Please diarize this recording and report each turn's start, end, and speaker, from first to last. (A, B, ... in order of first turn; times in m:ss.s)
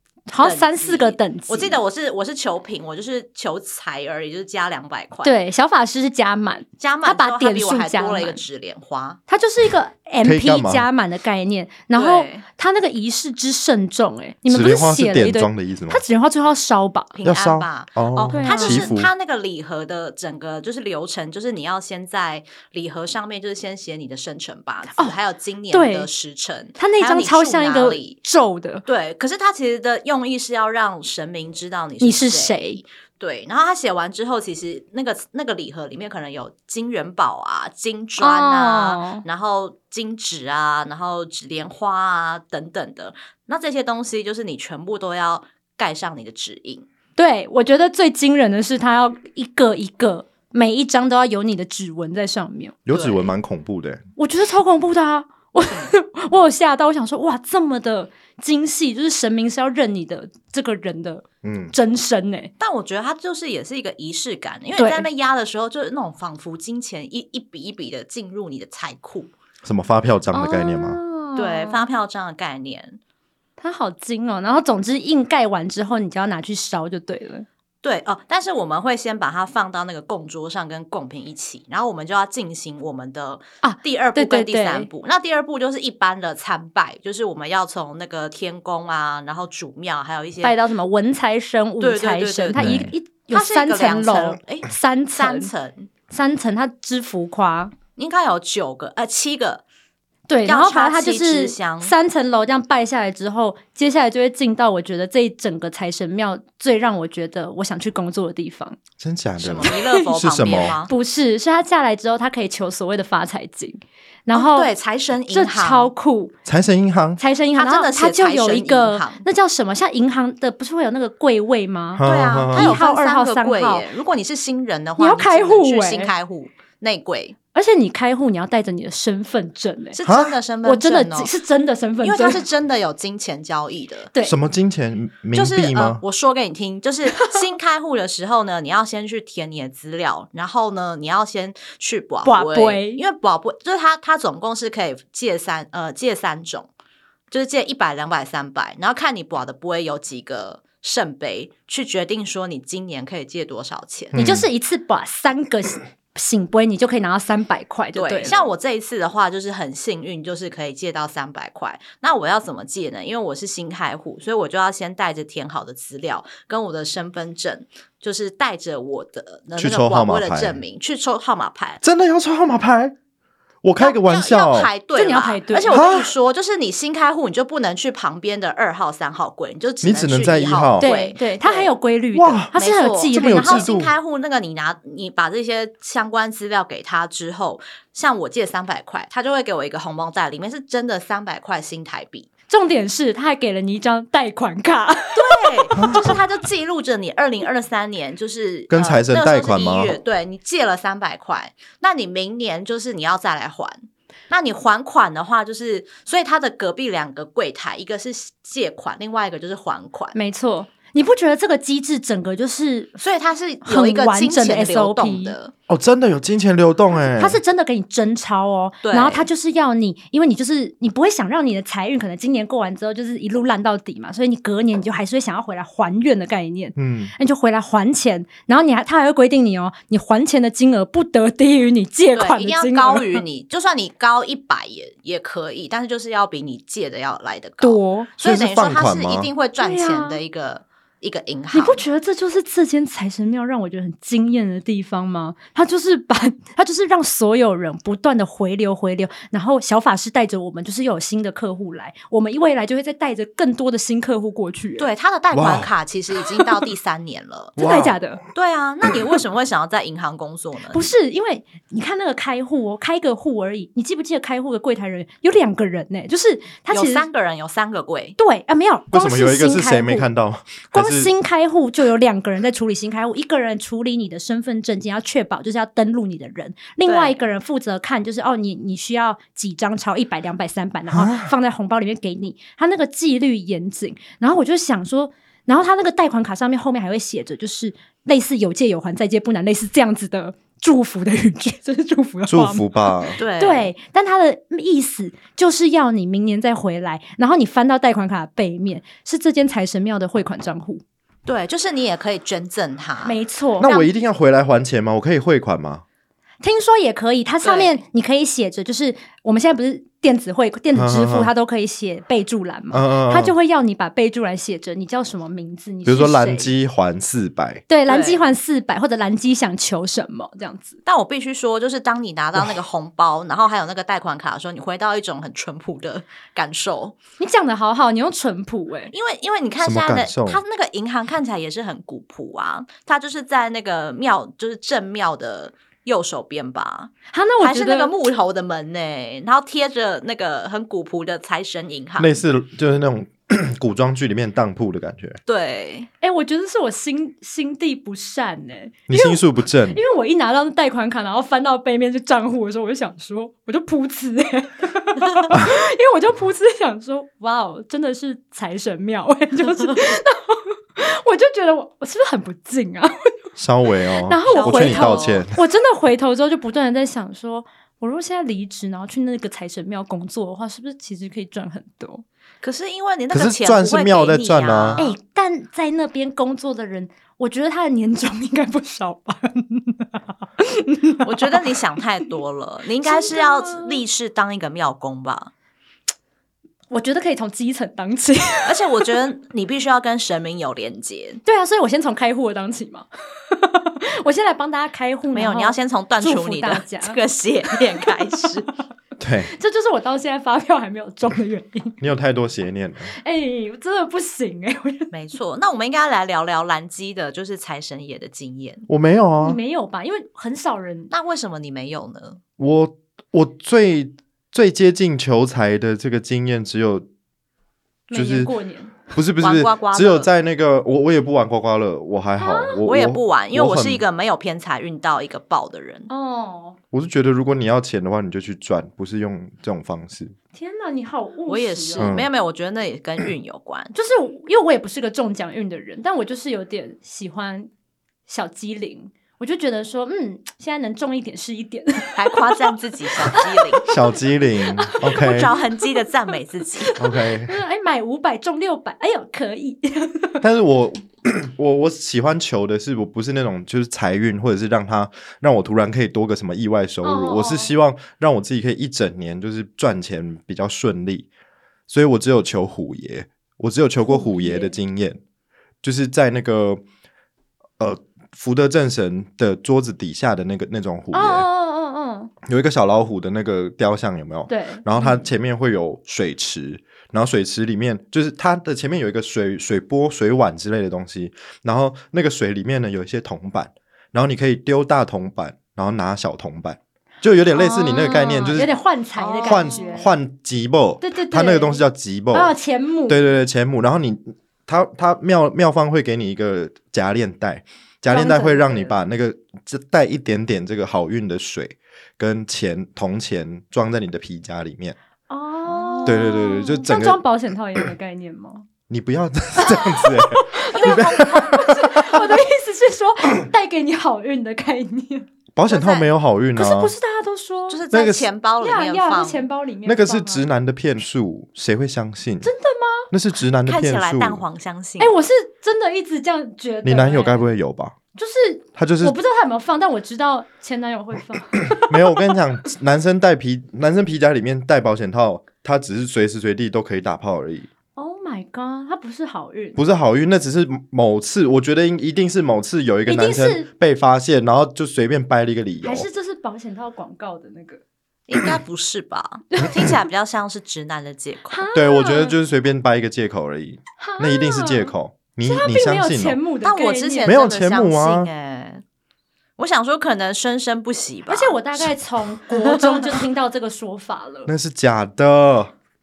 0:00.3-0:01.8 A
0:00.4-0:05.3 B
0:05.2-0:08.4 A
0:06.8-0:09.2 B
0:09.3-0:17.1 A
0:10.2-0:10.9 C
0:11.9-0:12.4 B
0:14.5-0:16.0 C
0:17.1-0:28.2 B
0:17.2-0:19.1 C
0:18.3-0:18.9 A
0:24.9-0:25.2 A
0:25.7-0:26.1 A
0:26.8-0:28.8 A
0:28.8-0:46.8 B
0:32.0-0:32.8 A
0:38.2-0:39.2 A
0:47.2-0:52.8 A
0:52.8-0:54.0 C
0:52.9-0:53.3 B
0:54.2-1:02.5 A
0:55.6-0:55.9 B
1:01.4-1:01.7 C
1:02.6-1:09.3 B
1:04.7-1:05.0 A
1:09.6-1:11.0 C
1:10.3-1:11.8 A
1:11.3-1:13.0 B
1:13.6-1:17.4 A
1:17.8-1:30.6 B
1:23.6-1:24.9 A
1:30.4-1:35.5 A
1:31.8-1:35.9 B
1:32.6-1:32.9 C
1:36.1-1:37.7 A
1:38.0-1:39.6 B
1:40.3-1:48.8 A
1:40.4-1:41.9 B
1:49.0-1:50.8 C
1:49.4-1:50.9 B
1:50.9-1:54.7 A
1:54.3-1:55.9 B
1:55.3-1:56.3 A
1:56.4-1:57.2 C
1:57.2-2:03.9 A
1:57.5-1:59.2 B
2:01.9-2:02.8 C
2:02.0-2:07.4 B
2:05.0-2:06.1 A
2:07.5-2:10.0 A
2:09.9-2:11.3 B
2:10.0-2:10.4 C
2:10.6-2:12.4 A
2:12.0-2:14.1 B
2:14.2-2:16.0 C
2:15.3-2:26.7 B
2:17.1-2:17.4 A
2:22.2-2:23.0 A
2:27.3-2:34.2 B
2:34.1-2:34.4 C
2:34.1-2:38.4 A
2:37.9-2:51.8 B
2:49.6-2:50.6 C
2:51.8-2:52.9 C
2:53.6-2:54.7 C
2:53.8-3:01.7 B
2:54.9-2:55.8 A
2:55.7-2:56.1 C
2:59.8-3:00.9 C
3:00.8-3:03.7 A
3:02.1-3:02.5 C
3:02.5-3:12.3 B
3:03.1-3:03.9 C
3:12.5-3:16.1 A
3:15.1-3:30.1 B
3:18.7-3:20.0 C
3:30.1-3:33.0 A
3:33.0-3:35.5 B
3:33.6-3:35.4 A
3:35.7-3:37.4 C
3:37.0-3:53.2 A
3:38.8-3:39.3 B
3:46.8-3:47.1 C
3:52.1-4:01.8 B
3:57.6-3:58.1 A
3:58.2-3:59.3 C
3:59.6-4:00.2 A
4:01.5-4:14.9 A
4:14.8-4:17.6 B
4:15.3-4:15.7 C
4:17.6-4:18.0 C
4:17.6-4:18.2 A
4:18.3-4:20.9 B
4:20.7-4:27.1 A
4:26.7-4:28.2 B
4:28.2-4:30.1 A
4:28.9-4:31.1 C
4:30.7-5:00.8 A
4:36.8-4:37.2 B
4:40.9-4:41.3 C
4:52.3-4:53.2 C
4:53.2-4:53.7 B
5:01.2-5:03.1 B
5:03.0-5:03.9 A
5:03.6-5:05.8 C
5:06.4-5:16.5 A
5:07.4-5:07.8 B
5:10.7-5:11.3 C
5:12.7-5:13.3 C
5:15.8-5:17.6 C
5:17.7-5:20.8 A
5:17.9-5:18.2 B
5:20.8-5:27.0 B
5:27.2-5:28.9 A
5:28.9-5:42.2 B
5:29.6-5:30.4 C
5:37.1-5:37.9 A
5:42.0-5:45.2 C
5:45.3-5:45.9 B
5:46.0-6:03.3 A
5:48.9-5:49.8 C
6:03.4-6:05.4 C
6:04.0-6:12.0 A
6:04.2-6:05.3 B
6:12.4-6:14.9 B
6:13.1-6:14.8 C
6:14.8-6:21.4 A
6:21.0-6:25.3 B
6:22.8-6:23.8 A
6:26.7-6:29.1 A
6:28.4-6:31.2 B
6:31.2-6:37.9 A
6:35.1-6:38.5 B
6:39.0-6:39.3 C
6:39.3-6:41.8 A
6:41.8-6:42.9 C
6:43.0-6:44.9 A
6:44.9-6:48.6 B
6:48.7-6:49.4 C
6:49.2-6:50.9 A
6:50.9-6:52.2 B
6:52.4-6:56.9 C
6:57.9-6:58.7 A
6:57.9-6:58.3 C
6:58.9-7:03.8 C
6:59.2-7:00.1 B
7:02.2-7:02.6 A
7:02.6-7:05.9 B
7:05.9-7:06.6 A
7:06.7-7:10.1 C
7:10.3-7:11.9 A
7:11.2-7:13.7 B
7:11.8-7:12.1 C
7:13.7-7:17.5 A
7:18.1-7:25.8 A
7:22.0-7:23.7 B
7:23.7-7:25.3 C
7:24.9-7:26.8 B
7:26.6-7:30.2 A
7:26.8-7:27.4 C
7:30.2-7:41.1 C
7:36.8-7:37.5 A
7:41.7-7:45.0 C
7:43.8-7:44.6 A
7:45.6-7:46.6 C
7:47.6-7:51.3 C
7:50.9-7:52.1 A
7:52.2-8:08.5 C
7:54.3-7:55.1 A
8:07.3-8:09.9 A
8:08.9-8:09.9 B
8:09.2-8:12.3 C
8:10.8-8:13.0 A
8:12.9-8:24.8 C
8:17.9-8:18.8 A
8:25.1-8:28.4 A
8:25.4-8:26.1 B
8:25.8-8:27.0 C
8:28.7-8:32.2 C
8:29.4-8:35.1 A
8:30.5-8:31.3 B
8:35.4-8:36.7 C
8:35.5-8:35.9 B
8:36.3-8:37.6 A
8:37.5-8:39.2 B
8:37.7-8:38.0 C
8:38.4-8:40.3 A
8:39.6-8:42.3 C
8:42.2-8:42.9 A
8:42.9-8:44.2 C
8:43.4-8:44.9 B
8:44.8-8:47.2 A
8:46.6-8:47.7 C
8:47.9-8:52.0 A
8:48.6-8:49.0 C
8:51.6-8:57.5 C
8:57.7-8:59.6 A
8:59.6-9:05.9 C
9:02.8-9:03.5 A
9:05.6-9:07.6 A
9:08.1-9:11.4 B
9:09.3-9:09.6 A
9:11.3-9:12.2 A
9:11.5-9:16.2 C
9:13.8-9:17.3 A
9:16.4-9:18.6 B
9:17.0-9:18.1 C
9:19.4-9:21.7 B
9:21.1-9:24.3 A
9:22.3-9:22.9 B
9:24.3-9:25.5 C